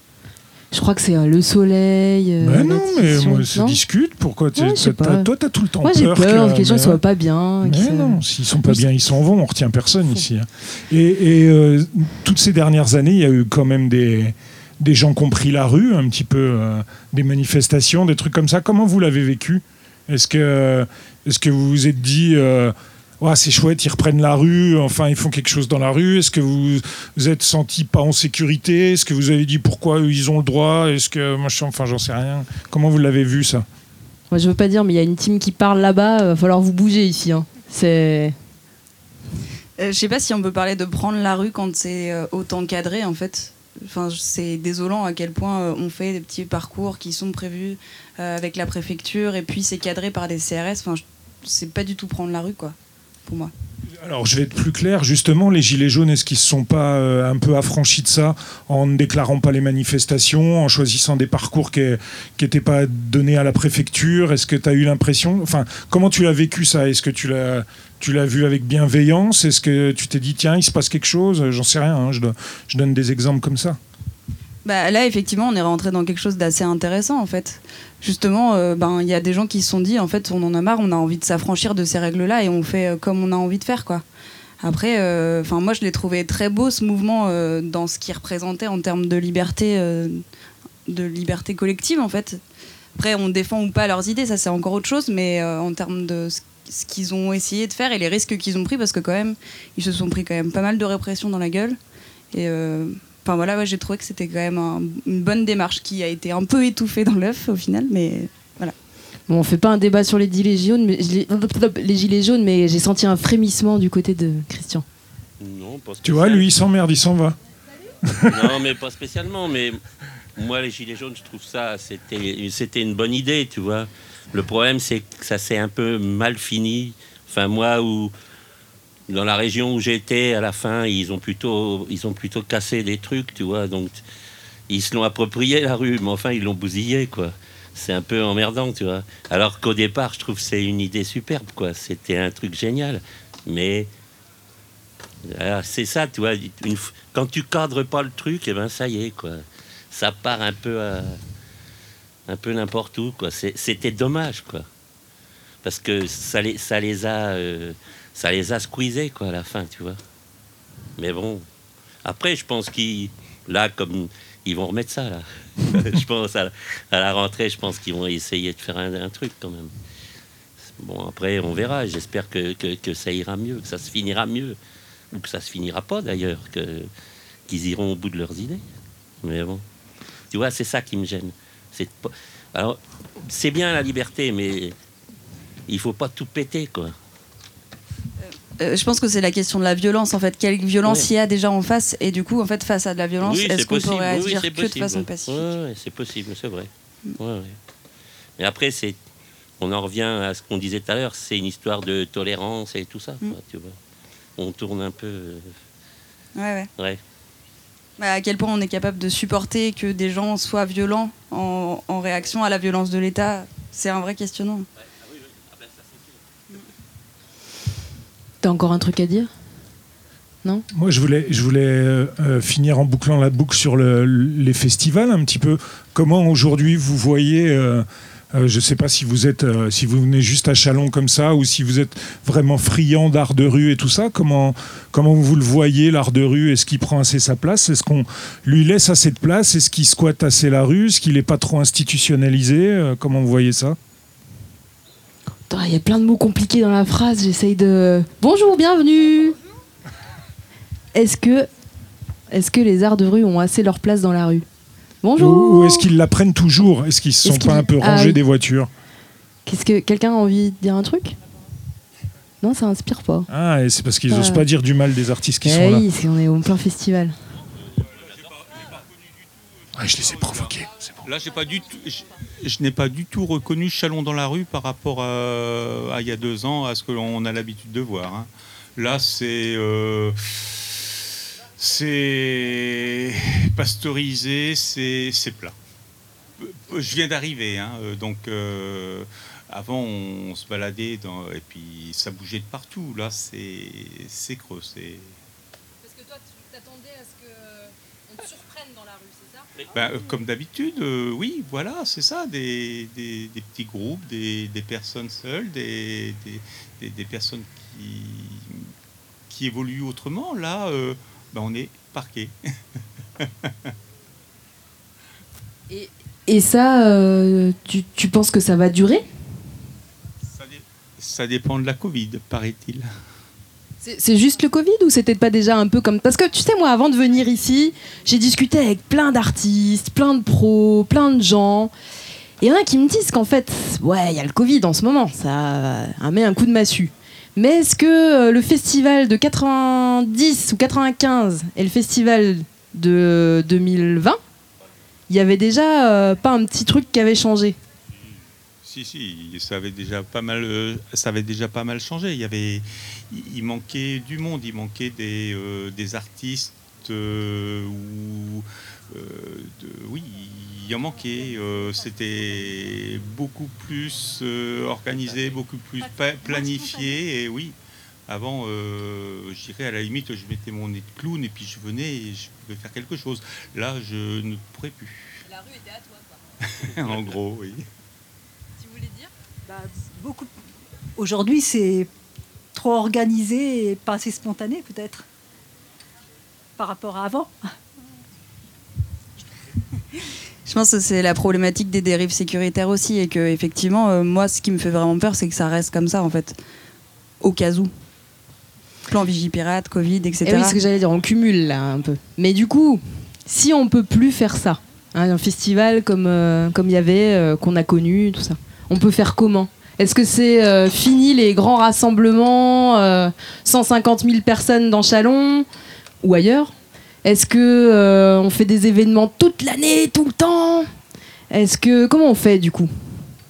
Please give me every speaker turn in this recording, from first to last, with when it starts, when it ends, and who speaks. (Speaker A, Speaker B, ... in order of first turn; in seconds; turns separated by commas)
Speaker A: 0.7-3.8, Speaker B: 2.4-7.0, Speaker A: 4.6-5.3, Speaker A: 5.8-8.8, Speaker B: 7.6-33.6, Speaker A: 34.3-38.4, Speaker C: 39.8-53.5, Speaker B: 54.0-73.8, Speaker C: 74.7-84.0, Speaker C: 84.6-90.2, Speaker C: 90.9-92.4, Speaker C: 93.0-101.8, Speaker C: 102.3-108.7, Speaker A: 109.3-114.8, Speaker D: 115.4-116.5, Speaker B: 116.0-117.4, Speaker B: 118.1-118.5, Speaker D: 118.3-119.8, Speaker D: 120.4-128.1, Speaker D: 129.1-134.0, Speaker D: 134.7-143.9, Speaker D: 145.2-151.2, Speaker D: 152.3-154.7, Speaker D: 155.6-160.0, Speaker D: 161.0-161.4, Speaker D: 162.0-169.7, Speaker D: 170.8-174.6, Speaker D: 175.1-176.9, Speaker D: 177.5-178.6, Speaker D: 179.2-179.6, Speaker D: 180.3-184.8, Speaker D: 185.7-186.9, Speaker C: 188.5-195.4, Speaker D: 190.8-191.1, Speaker D: 193.2-197.6, Speaker D: 198.4-199.0, Speaker D: 199.6-203.8, Speaker D: 204.4-205.5, Speaker C: 206.4-206.7, Speaker C: 208.0-214.7, Speaker D: 215.0-216.1, Speaker A: 218.4-219.3, Speaker B: 220.7-243.8, Speaker A: 245.5-249.4, Speaker A: 250.9-251.5, Speaker A: 252.3-254.5, Speaker A: 255.0-255.9, Speaker B: 255.2-258.7, Speaker A: 257.2-258.2, Speaker A: 259.5-261.2, Speaker A: 262.4-263.3, Speaker B: 263.3-265.9, Speaker A: 264.1-264.4, Speaker A: 265.4-267.2, Speaker B: 269.8-271.1, Speaker E: 271.0-285.6, Speaker E: 286.4-295.2, Speaker E: 299.7-308.7, Speaker E: 309.3-312.4, Speaker E: 313.2-313.7, Speaker A: 315.7-319.1, Speaker E: 320.3-322.9, Speaker A: 323.8-331.7, Speaker A: 332.4-344.2, Speaker A: 345.1-347.6, Speaker E: 348.6-367.6, Speaker E: 368.1-375.3, Speaker E: 376.4-377.7, Speaker F: 378.6-380.3, Speaker F: 381.0-381.9, Speaker F: 382.5-385.1, Speaker F: 386.6-387.4, Speaker C: 390.5-396.4, Speaker C: 397.2-397.7, Speaker C: 398.9-400.6, Speaker A: 400.2-415.5, Speaker A: 416.0-420.7, Speaker A: 421.3-422.7